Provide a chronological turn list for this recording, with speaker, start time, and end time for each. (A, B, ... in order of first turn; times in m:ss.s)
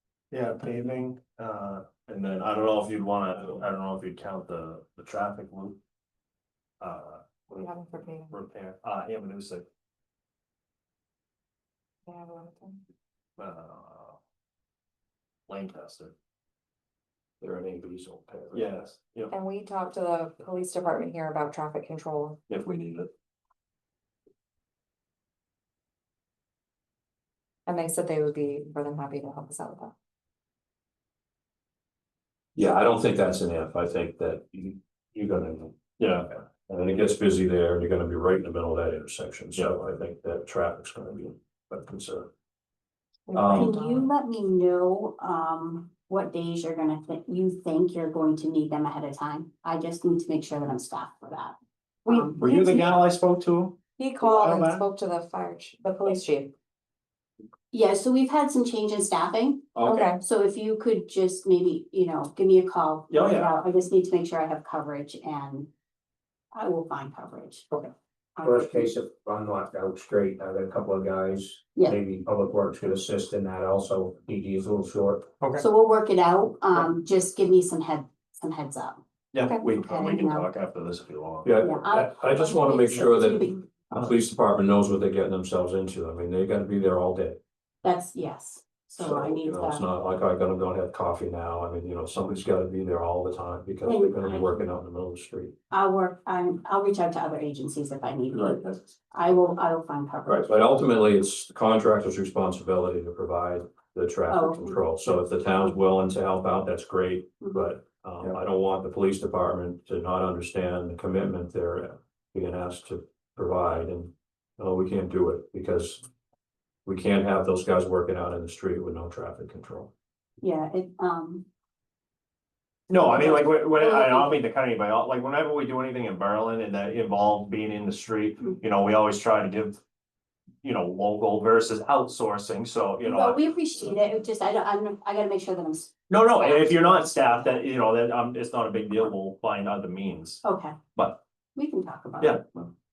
0:00.3-0:05.8 A
0:06.8-0:07.2 A
0:07.5-0:08.4 B
0:08.3-0:09.6 A
0:12.1-0:12.8 B
0:13.4-0:14.2 A
0:15.5-0:16.1 A
0:17.4-0:18.7 C
0:18.5-0:19.3 A
0:19.3-0:22.4 B
0:22.5-0:23.0 A
0:27.7-0:29.9 B
0:32.6-0:35.7 C
0:36.0-0:36.3 A
0:36.7-0:42.3 C
0:43.3-0:44.1 B
0:43.3-0:43.8 C
0:43.5-0:51.6 D
0:52.1-0:52.6 B
0:52.1-0:52.6 D
0:52.4-0:54.8 A
0:54.0-0:56.5 B
0:57.7-1:05.7 D
0:59.8-1:00.1 C
0:59.8-1:00.2 B
1:03.1-1:03.5 A
1:06.5-1:07.7 D
1:08.4-1:08.9 D
1:08.4-1:15.3 E
1:15.6-1:19.0 D
1:19.3-1:21.6 A
1:19.7-1:20.5 D
1:21.4-1:27.4 C
1:21.6-1:23.7 D
1:27.8-1:29.9 D
1:29.0-1:35.6 C
1:33.8-1:34.6 D
1:35.7-1:40.6 D
1:38.4-1:38.7 C
1:40.3-1:56.0 C
1:44.3-1:44.8 D
1:56.8-1:59.9 C
2:00.4-2:01.5 D
2:02.9-2:09.8 A
2:03.0-2:04.3 D
2:10.6-2:13.4 A
2:13.0-2:16.9 D
2:16.1-2:20.4 A
2:20.4-2:20.8 D
2:21.0-2:21.2 A
2:21.6-2:22.4 D
2:22.2-2:22.6 A